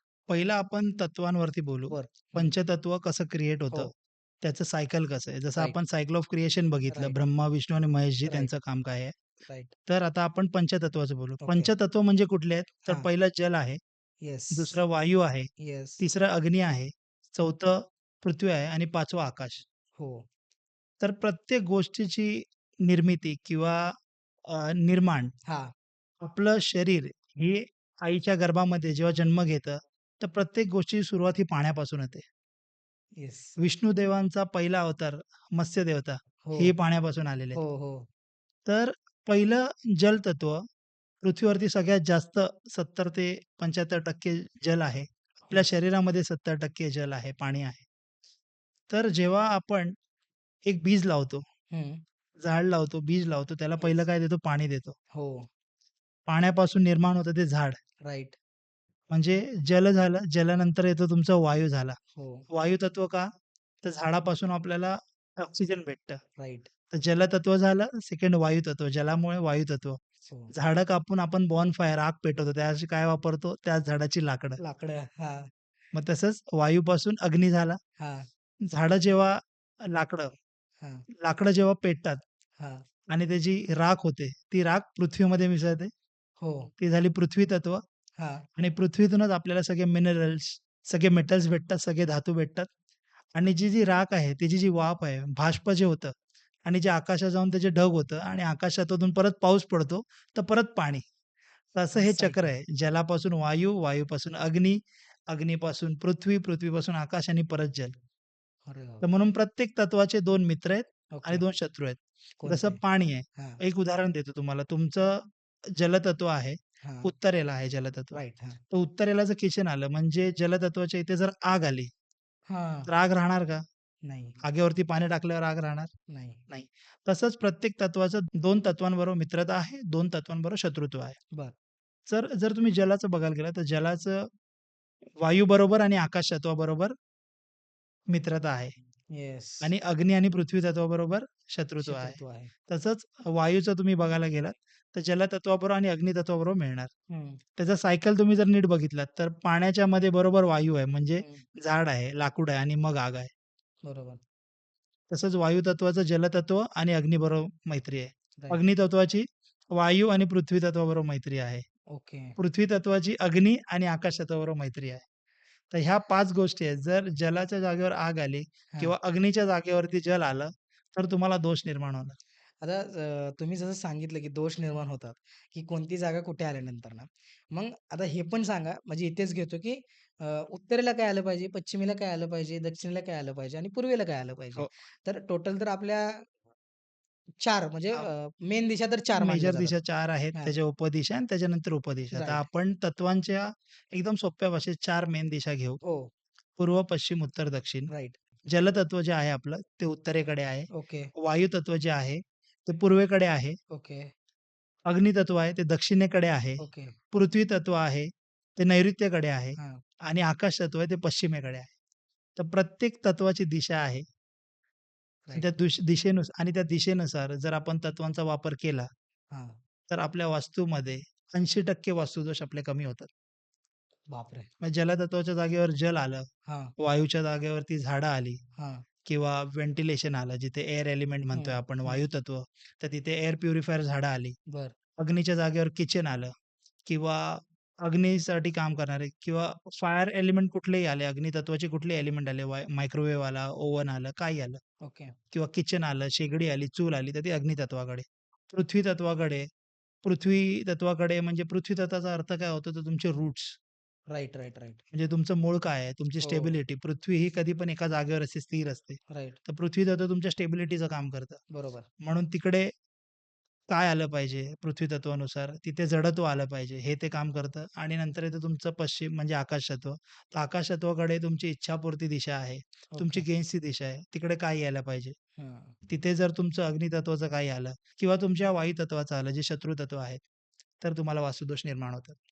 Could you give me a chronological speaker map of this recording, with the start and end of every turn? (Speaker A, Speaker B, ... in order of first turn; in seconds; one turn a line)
Speaker A: 0.3-9.1
Speaker B: 1.9-2.5
Speaker B: 6.9-7.2
Speaker B: 8.3-8.5
Speaker B: 9.5-9.7
Speaker A: 9.9-13.8
Speaker B: 11.4-11.7
Speaker B: 14.2-14.8
Speaker A: 14.5-15.5
Speaker B: 15.6-16.0
Speaker A: 16.0-19.6
Speaker B: 20.0-20.2
Speaker A: 21.0-23.9
Speaker A: 24.5-25.3
Speaker B: 25.5-25.7
Speaker A: 26.2-32.2
Speaker B: 33.2-33.5
Speaker A: 33.6-37.6
Speaker B: 36.4-36.7
Speaker B: 37.5-38.1
Speaker A: 38.7-40.6
Speaker A: 41.2-47.9
Speaker A: 48.9-50.0
Speaker A: 50.7-51.4
Speaker B: 51.7-52.0
Speaker A: 52.4-55.0
Speaker B: 53.8-54.0
Speaker B: 55.1-55.5
Speaker A: 56.3-57.8
Speaker B: 58.0-58.4
Speaker A: 59.1-62.0
Speaker B: 62.1-62.5
Speaker A: 62.5-63.3
Speaker A: 63.8-66.2
Speaker B: 66.4-66.7
Speaker A: 66.9-70.0
Speaker B: 70.3-70.5
Speaker A: 70.5-74.6
Speaker B: 74.6-75.5
Speaker A: 75.9-77.8
Speaker B: 78.0-78.3
Speaker A: 78.7-80.3
Speaker A: 81.2-82.2
Speaker B: 82.6-82.8
Speaker A: 83.1-85.9
Speaker B: 86.4-86.7
Speaker A: 86.8-87.8
Speaker B: 88.2-88.5
Speaker A: 88.6-92.7
Speaker A: 93.3-96.1
Speaker A: 96.7-101.0
Speaker A: 101.8-108.0
Speaker B: 102.0-102.5
Speaker B: 108.7-109.1
Speaker A: 109.0-118.2
Speaker B: 111.1-111.5
Speaker B: 112.4-112.8
Speaker B: 116.8-117.1
Speaker B: 118.1-118.6
Speaker A: 118.7-121.9
Speaker B: 122.5-122.9
Speaker A: 122.9-123.6
Speaker B: 124.0-124.4
Speaker A: 124.4-125.9
Speaker B: 126.1-126.4
Speaker A: 126.5-131.2
Speaker A: 132.1-134.3
Speaker A: 135.2-136.9
Speaker A: 138.1-138.8
Speaker B: 139.1-139.7
Speaker A: 139.6-146.9
Speaker B: 141.8-142.5
Speaker B: 147.1-147.4
Speaker A: 147.6-153.3
Speaker B: 151.2-151.4
Speaker B: 153.8-154.2
Speaker A: 155.1-161.6
Speaker B: 161.9-162.3
Speaker A: 162.4-165.0
Speaker A: 165.7-172.2
Speaker B: 172.6-186.3
Speaker B: 187.4-189.8
Speaker A: 189.2-195.8
Speaker B: 192.1-192.5
Speaker B: 195.8-196.1
Speaker A: 196.6-197.9
Speaker B: 197.9-198.2
Speaker A: 198.5-203.6
Speaker B: 200.7-201.1
Speaker B: 203.7-204.1
Speaker A: 204.9-211.7
Speaker B: 206.6-207.0
Speaker A: 212.4-214.1
Speaker A: 215.4-218.9
Speaker B: 219.3-219.6
Speaker A: 219.9-223.1
Speaker B: 224.1-224.5
Speaker A: 224.6-226.3
Speaker B: 226.5-226.7
Speaker A: 226.8-228.4
Speaker B: 228.6-228.8
Speaker A: 229.1-234.4
Speaker B: 231.3-232.1
Speaker B: 234.5-234.8
Speaker A: 235.0-236.3
Speaker A: 236.9-244.6
Speaker B: 244.8-245.2
Speaker A: 245.3-249.5
Speaker A: 250.0-253.6
Speaker B: 254.1-254.8
Speaker A: 254.9-261.4
Speaker B: 256.2-256.6
Speaker B: 259.1-259.4
Speaker B: 261.5-261.9
Speaker A: 262.0-262.7
Speaker A: 263.7-275.1
Speaker B: 272.9-273.3
Speaker B: 275.4-275.8
Speaker A: 275.9-280.2
Speaker A: 280.8-282.2